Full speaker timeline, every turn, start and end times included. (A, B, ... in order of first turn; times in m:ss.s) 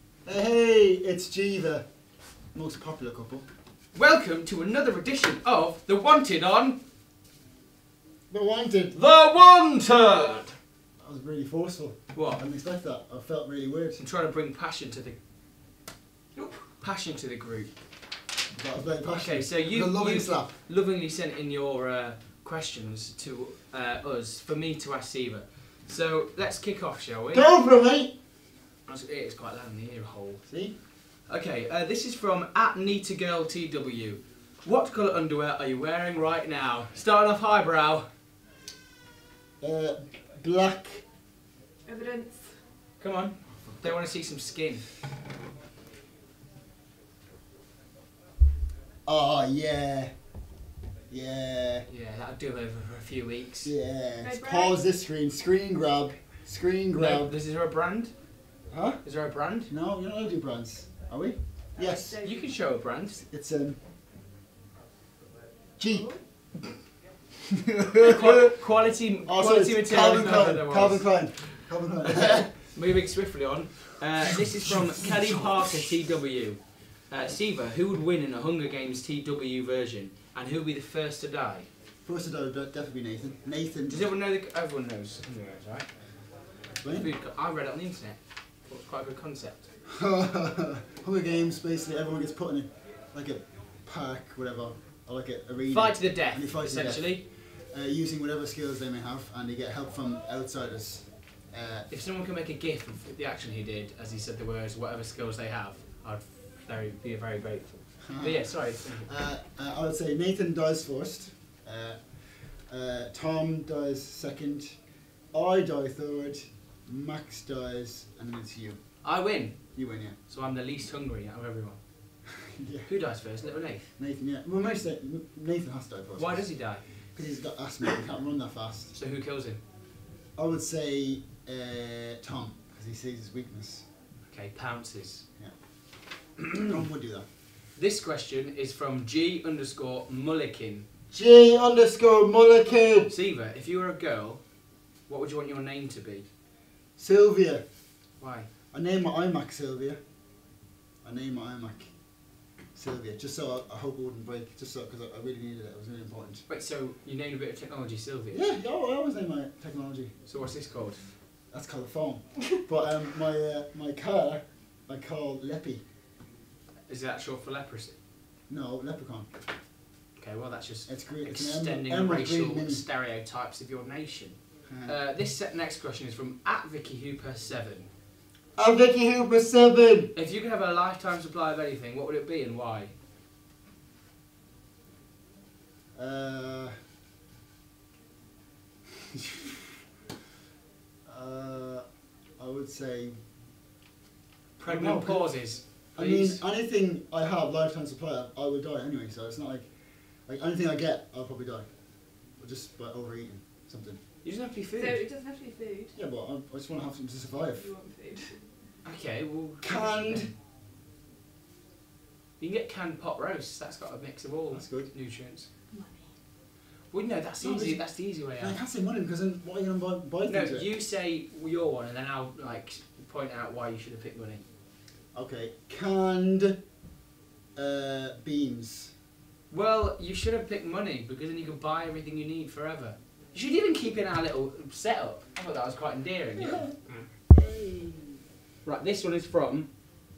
0:00.2-0:01.8 A
0:02.5-0:03.4 A
0:03.9-0:06.8 B
0:08.3-0:09.0 A
0:08.9-0:10.5 B
0:11.0-0:14.0 A
0:12.1-0:12.4 B
0:14.0-0:15.2 B
0:16.4-0:17.7 B
0:18.5-0:20.6 A
0:19.1-0:27.5 B
0:27.3-0:28.1 A
0:28.9-0:30.4 B
0:30.5-0:30.8 A
0:31.2-0:38.0 B
0:39.6-0:41.0 A
0:41.8-0:42.6 C
0:43.0-0:44.9 B
0:43.6-0:44.0 A
0:49.0-0:50.1 A
0:51.1-0:51.8 A
0:51.9-0:53.7 B
0:53.6-0:57.3 A
0:54.2-0:54.8 C
0:56.9-0:58.1 B
0:58.7-0:59.0 A
0:59.0-0:59.7 B
0:59.7-1:02.2 A
1:01.8-1:02.5 C
1:02.2-1:03.2 B
1:03.1-1:03.8 A
1:05.8-1:06.1 A
1:05.8-1:06.2 C
1:07.6-1:08.5 A
1:08.0-1:21.7 B
1:09.2-1:12.5 A
1:14.4-1:15.7 A
1:22.0-1:24.1 A
1:23.9-1:26.0 B
1:26.8-1:27.1 A
1:26.8-1:29.7 B
1:29.9-1:41.9 A
1:35.7-1:37.2 B
1:41.9-1:49.1 B
1:48.0-1:54.8 A
1:55.3-1:58.8 A
1:59.0-1:59.6 B
1:59.7-2:00.2 A
2:00.2-2:01.8 B
2:02.4-2:02.9 A
2:02.8-2:03.9 B
2:04.0-2:08.9 A
2:06.2-2:06.9 B
2:08.9-2:09.6 B
2:10.4-2:13.8 A
2:14.3-2:15.2 B
2:16.5-2:17.2 A
2:17.8-2:20.8 B
2:21.1-2:23.1 A
2:23.1-2:24.4 B
2:25.1-2:26.2 B
2:27.0-2:27.6 A
2:28.2-2:28.5 B
2:28.7-2:30.0 A
2:31.0-2:31.9 A
2:32.7-2:36.4 A
2:36.5-2:38.5 B
2:38.3-2:40.1 A
2:40.2-2:41.2 B
2:41.5-2:45.8 A
2:46.9-2:48.0 B
2:48.5-2:49.3 A
2:50.2-2:57.9 B
2:50.9-2:52.8 A
2:54.7-2:55.0 A
2:58.6-3:00.1 A
3:00.1-3:02.9 B
3:05.9-3:06.7 A
3:09.1-3:09.5 A
3:11.0-3:11.8 A
3:12.4-3:13.2 A
3:14.6-3:16.4 B
3:14.6-3:21.7 A
3:22.4-3:24.0 A
3:24.2-3:25.0 B
3:24.8-3:25.9 C
3:25.9-3:27.7 A
3:27.5-3:28.5 C
3:28.8-3:30.3 B
3:29.6-3:30.3 A
3:32.4-3:35.5 B
3:34.5-3:34.9 A
3:35.7-3:36.0 C
3:36.9-3:38.6 B
3:37.4-3:40.7 A
3:40.2-3:44.4 B
3:45.1-3:46.6 A
3:47.5-3:48.9 A
3:49.5-3:56.8 B
3:56.4-3:56.7 A
3:57.3-3:58.2 A
3:58.6-3:59.7 B